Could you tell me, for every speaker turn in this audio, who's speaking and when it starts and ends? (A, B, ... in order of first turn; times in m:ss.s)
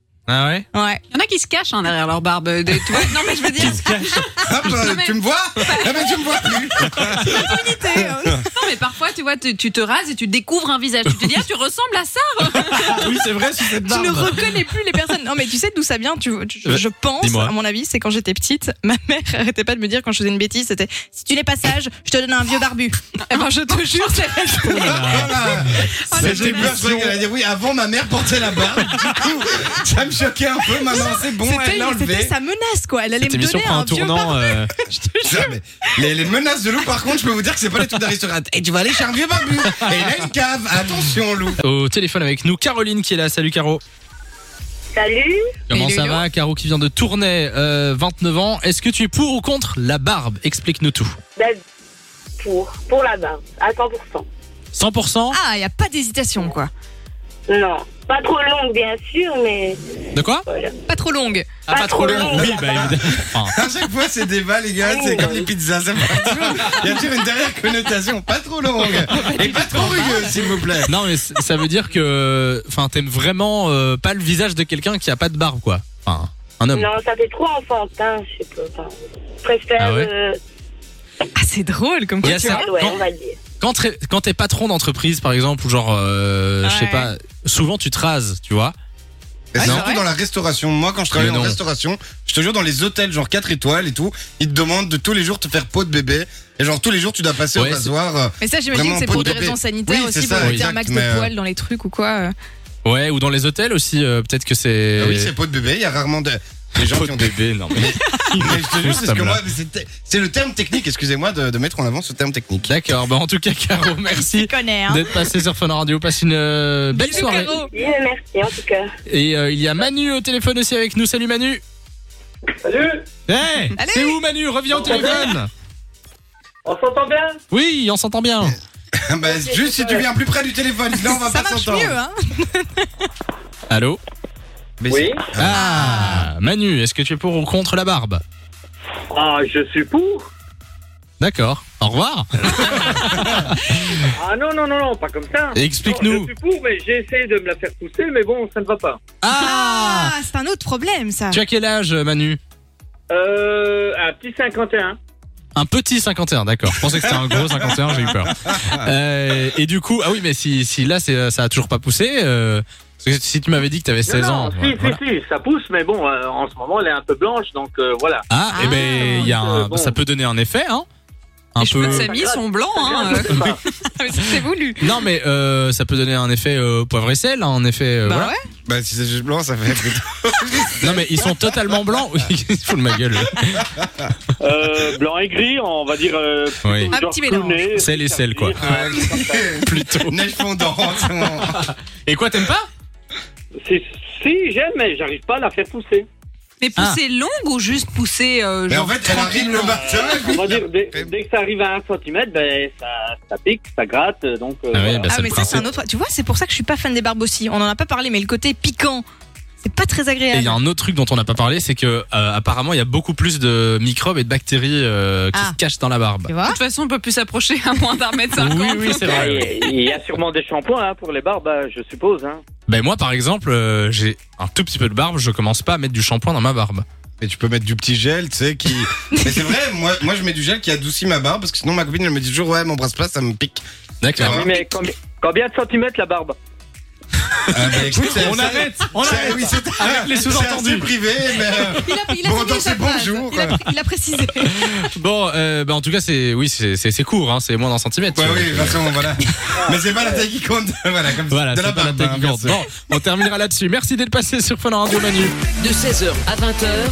0:00.3-0:00.7 A
0:00.7-0:01.0 B
0:01.1-0:06.2 C
0:03.6-0:04.2 A
0:04.4-0:08.4 D
0:07.2-0:08.5 B
0:08.5-0:13.1 C
0:12.6-0:14.6 A
0:13.8-0:25.1 B
0:16.6-0:17.5 A
0:23.3-0:25.3 C
0:24.8-0:27.2 A
0:24.8-0:32.4 D
0:26.1-0:27.1 C
0:30.8-0:35.5 B
0:33.2-0:34.7 A
0:35.2-0:41.6 D
0:39.7-0:40.1 A
0:41.6-0:43.8 A
0:44.9-0:45.4 E
0:45.7-0:51.2 A
0:45.7-0:46.2 B
0:52.4-0:54.2 E
0:54.7-0:55.4 A
0:55.3-0:56.7 B
0:57.5-0:59.8 E
1:00.2-1:00.4 A
1:00.5-1:00.8 E
1:00.9-1:01.7 B
1:01.7-1:03.0 E
1:01.7-1:03.5 A
1:03.0-1:10.9 D
1:04.8-1:05.5 E
1:06.2-1:07.0 B
1:09.3-1:10.2 B
1:10.9-1:16.9 A
1:16.7-1:18.9 E
1:19.4-1:20.4 E
1:19.8-1:20.1 A
1:21.4-1:22.8 B
1:22.2-1:23.0 A
1:22.2-1:23.4 E
1:23.6-1:28.7 A
1:26.6-1:27.1 B
1:29.5-1:41.3 D
1:29.6-1:29.9 A
1:29.6-1:30.0 B
1:31.1-1:31.6 A
1:37.6-1:37.9 A
1:38.4-1:42.3 B
1:40.4-1:40.7 A
1:42.8-1:45.3 A
1:45.0-1:52.7 D
1:46.8-1:49.4 A
1:52.7-1:57.6 A
1:54.0-1:55.1 B
1:56.9-1:57.7 B
1:57.6-1:58.9 E
1:59.1-2:01.6 A
2:02.6-2:03.0 F
2:03.3-2:05.5 A
2:03.8-2:04.2 B
2:04.7-2:05.4 F
2:06.6-2:07.4 F
2:07.5-2:08.6 A
2:09.0-2:12.0 D
2:09.3-2:10.0 F
2:11.1-2:13.1 B
2:13.7-2:14.0 A
2:14.8-2:15.6 D
2:14.9-2:15.2 F
2:15.4-2:18.2 A
2:15.5-2:16.3 B
2:19.1-2:20.3 F
2:21.2-2:24.1 A
2:24.1-2:29.0 F
2:25.5-2:26.3 A
2:29.2-2:30.1 A
2:29.3-2:31.4 B
2:31.3-2:32.4 A
2:33.1-2:35.0 F
2:35.6-2:45.0 A
2:37.1-2:37.4 D
2:38.4-2:38.9 D
2:44.1-2:50.0 F
2:48.3-2:50.9 A
2:48.5-2:49.4 B
2:51.6-2:52.1 A
2:51.6-2:53.7 C
2:51.8-2:53.6 F
2:53.9-2:54.8 B
2:54.8-2:58.3 A
2:58.0-2:58.4 B
2:58.7-3:01.3 D
3:00.8-3:03.8 A
3:04.4-3:09.6 F
3:06.6-3:07.0 A
3:06.9-3:07.8 B
3:07.8-3:08.6 A
3:08.6-3:11.6 D
3:09.6-3:10.1 A
3:11.4-3:12.7 A
3:13.6-3:16.1 F
3:16.6-3:19.8 C
3:18.7-3:21.1 D
3:19.4-3:25.2 F
3:24.7-3:25.6 A
3:25.1-3:29.0 B
3:29.6-3:30.6 B
3:30.3-3:36.3 A
3:36.3-3:36.6 B
3:36.4-3:39.3 C
3:38.4-3:39.5 A
3:39.0-3:42.4 F
3:42.7-3:46.8 A
3:47.2-3:53.6 D
3:54.0-3:54.5 A
3:54.2-3:54.6 D
3:54.2-3:56.4 F
3:57.3-4:00.9 A
3:57.5-4:03.6 D
4:01.6-4:04.9 B
4:04.4-4:08.9 A
4:08.2-4:12.6 D
4:09.7-4:10.2 F
4:11.3-4:15.3 A
4:15.9-4:16.2 C